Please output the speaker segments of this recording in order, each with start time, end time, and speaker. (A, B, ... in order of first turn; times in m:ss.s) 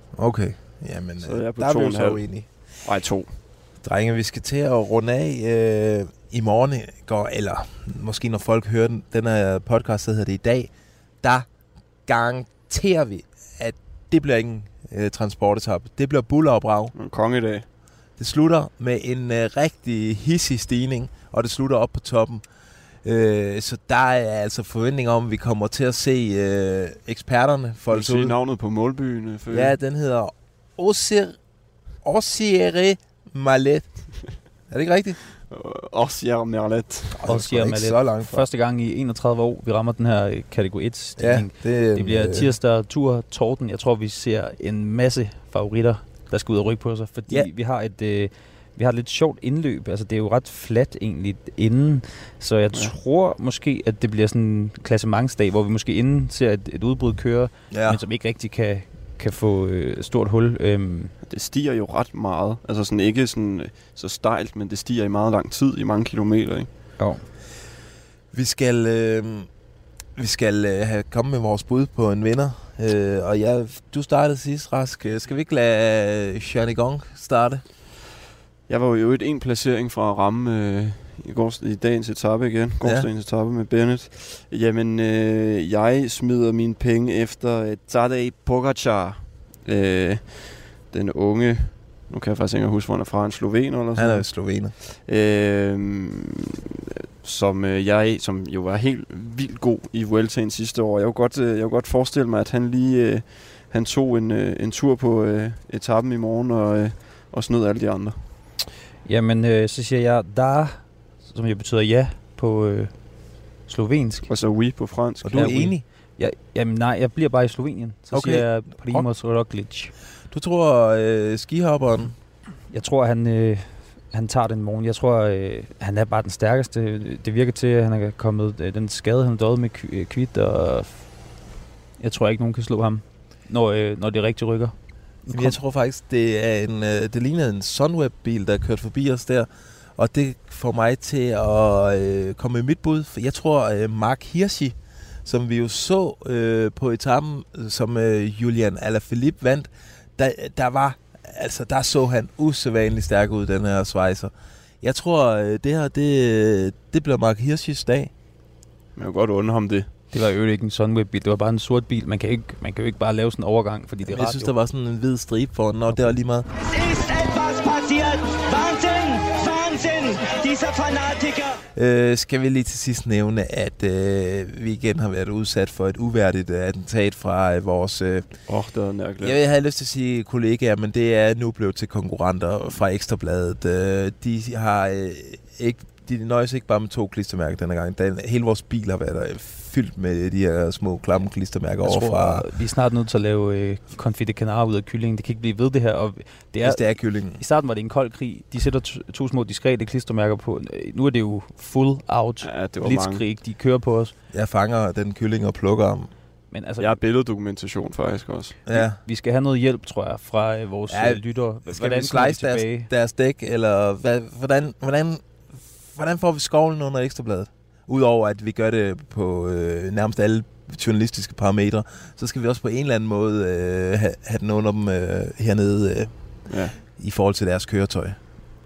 0:00.2-0:02.5 A
0:01.2-0:03.4 B
0:03.8-0:11.5 A
0:12.0-0:16.9 A
0:16.9-0:17.6 B
0:18.2-0:22.4 A
0:23.0-0:28.4 A
0:27.9-0:29.8 B
0:29.5-0:31.4 A
0:32.0-0:35.2 A
0:35.4-0:37.2 B
0:37.1-0:38.5 A
0:37.2-1:01.1 C
0:41.2-0:42.5 A
0:57.7-0:58.0 A
1:01.3-1:06.7 B
1:07.0-1:07.2 C
1:08.3-1:09.5 A
1:10.2-1:17.6 A
1:18.7-1:36.6 B
1:22.8-1:23.1 A
1:33.9-1:34.7 A
1:37.2-1:48.3 B
1:49.0-1:54.3 C
1:54.2-1:55.6 B
1:55.2-1:55.8 A
1:55.3-1:59.9 C
1:58.1-1:59.1 A
2:00.3-2:02.2 A
2:02.7-2:11.3 C
2:12.0-2:14.7 C
2:15.2-2:38.1 A
2:15.3-2:15.6 C
2:39.0-2:39.9 B
2:40.1-2:44.5 C
2:44.0-2:46.5 A
2:46.6-2:51.6 D
2:51.7-2:58.4 A
2:58.5-2:59.4 B
2:59.2-3:12.5 A
3:11.8-3:24.1 C
3:16.6-3:17.4 A
3:22.4-3:23.2 B
3:24.3-3:26.1 A
3:26.5-3:27.0 C
3:26.8-3:28.6 B
3:28.6-3:29.0 A
3:28.7-3:32.9 C
3:30.9-3:35.2 A
3:35.9-3:48.2 A
3:46.5-3:46.8 B